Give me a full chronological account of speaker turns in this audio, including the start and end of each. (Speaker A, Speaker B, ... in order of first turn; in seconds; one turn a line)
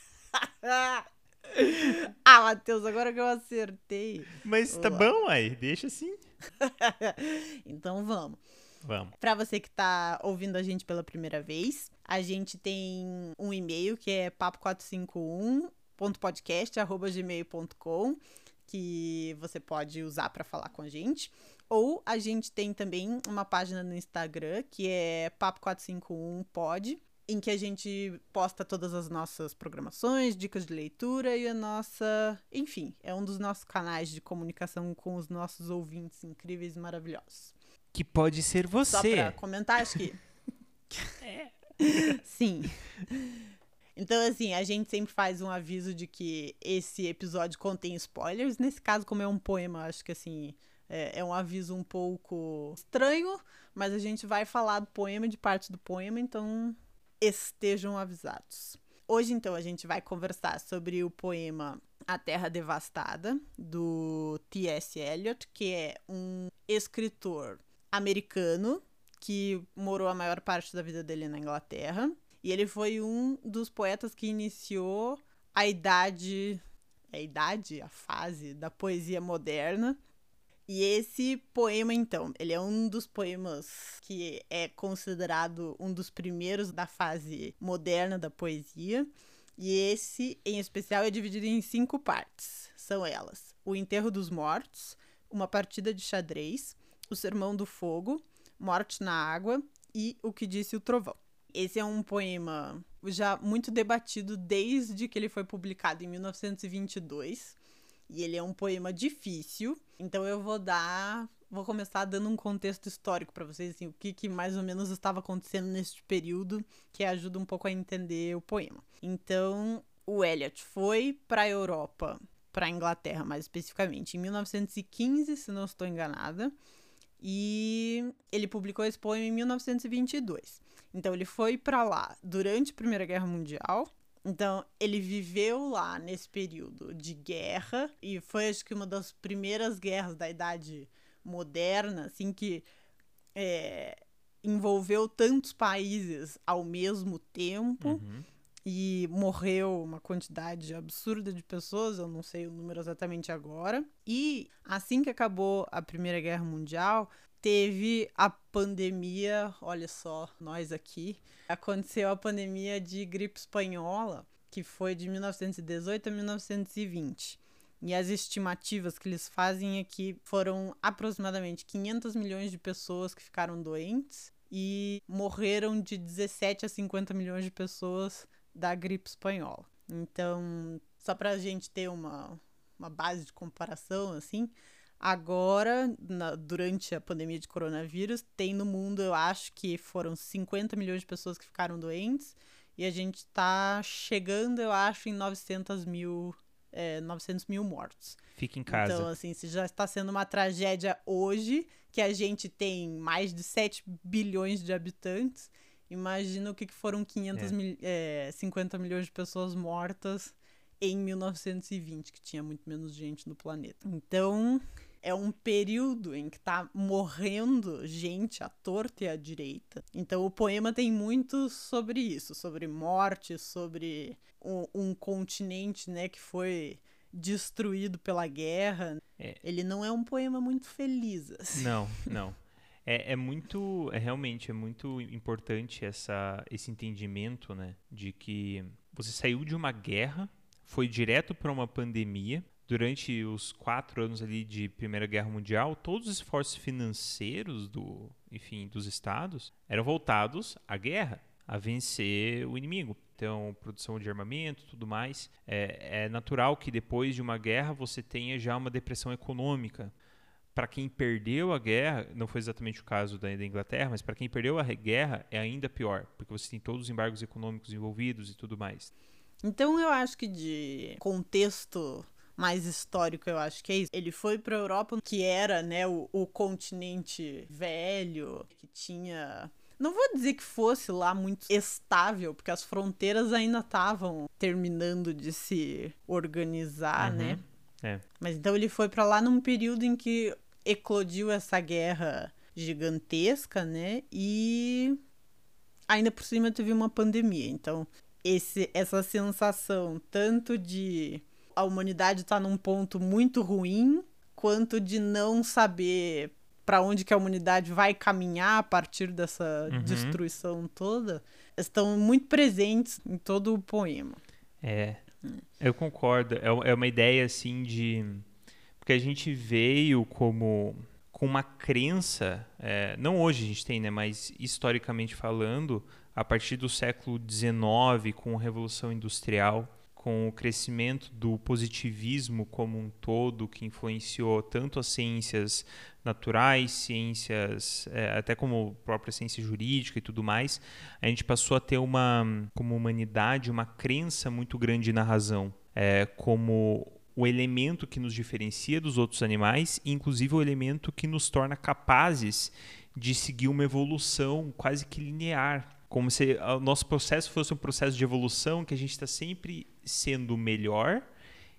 Speaker A: 0.3-5.1
Speaker B: 4.4-6.2
Speaker A: 6.6-8.4
Speaker B: 8.8-9.1
Speaker A: 9.2-37.5
Speaker B: 37.9-39.4
Speaker A: 38.9-40.2
Speaker A: 40.9-41.2
Speaker B: 41.2-42.2
Speaker A: 41.8-43.3
Speaker A: 44.0-80.0
Speaker A: 80.7-126.5
Speaker A: 127.2-142.7
Speaker A: 143.4-148.0
Speaker B: 147.8-148.3
Speaker A: 148.7-232.1
Speaker B: 198.4-199.1
Speaker B: 231.6-259.9
Speaker B: 260.6-268.9
Speaker A: 269.4-287.4
Speaker B: 287.0-288.0
Speaker A: 288.2-295.0
Speaker A: 295.9-314.2
Speaker B: 309.7-310.2
Speaker B: 314.6-315.0
Speaker B: 315.6-318.2
Speaker B: 318.8-361.1